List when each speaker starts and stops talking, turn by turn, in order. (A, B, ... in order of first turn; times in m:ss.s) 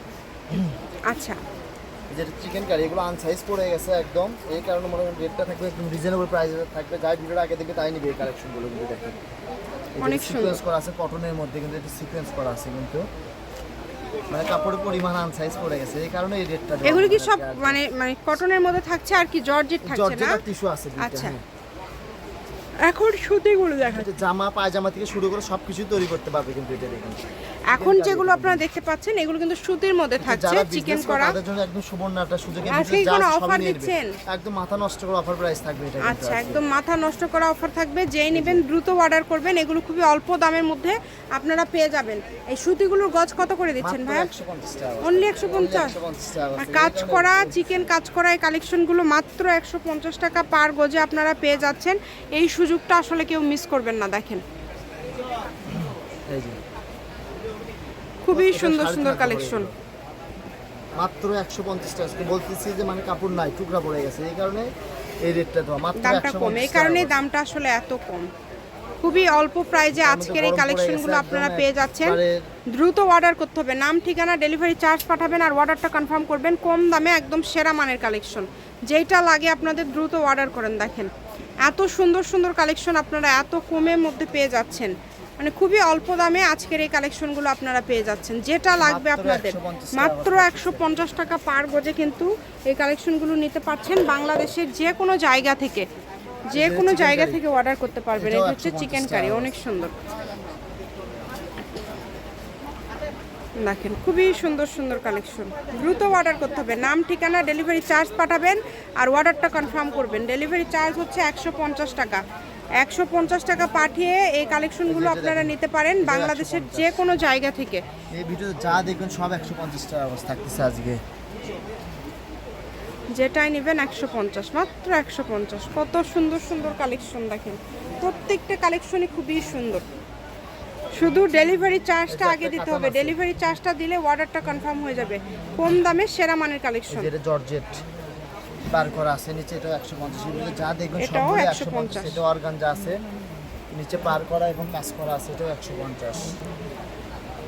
0:01.1-0:01.4 A
0:02.1-0:09.2 B
0:10.0-0:13.1 B
0:10.0-0:10.6 A
0:14.3-0:17.8 B
0:16.8-0:20.4 A
0:19.8-0:21.4 B
0:21.0-0:21.4 A
0:22.8-0:24.1 A
0:23.9-0:28.7 B
0:27.7-0:31.4 A
0:30.2-0:36.6 B
0:32.7-0:34.1 A
0:36.0-0:44.3 A
0:38.3-0:38.6 B
0:43.8-0:47.9 B
0:45.0-0:45.9 A
0:46.6-0:54.4 A
0:55.7-0:56.6 B
0:58.2-0:59.7 A
0:58.3-0:59.7 B
1:01.0-1:07.2 B
1:06.0-1:08.3 A
1:09.0-1:12.2 A
1:09.9-1:12.5 B
1:12.7-1:21.1 A
1:21.6-1:35.9 A
1:28.8-1:30.9 B
1:36.5-1:40.0 A
1:36.6-1:37.4 B
1:38.2-1:39.5 B
1:43.6-1:52.2 A
1:52.8-1:57.8 A
1:54.9-1:57.0 B
1:58.1-2:01.0 B
2:03.1-2:09.8 A
2:11.0-2:17.1 A
2:12.1-2:13.2 B
2:16.9-2:17.8 B
2:18.7-2:23.0 B
2:21.0-2:22.2 A
2:23.7-2:26.4 B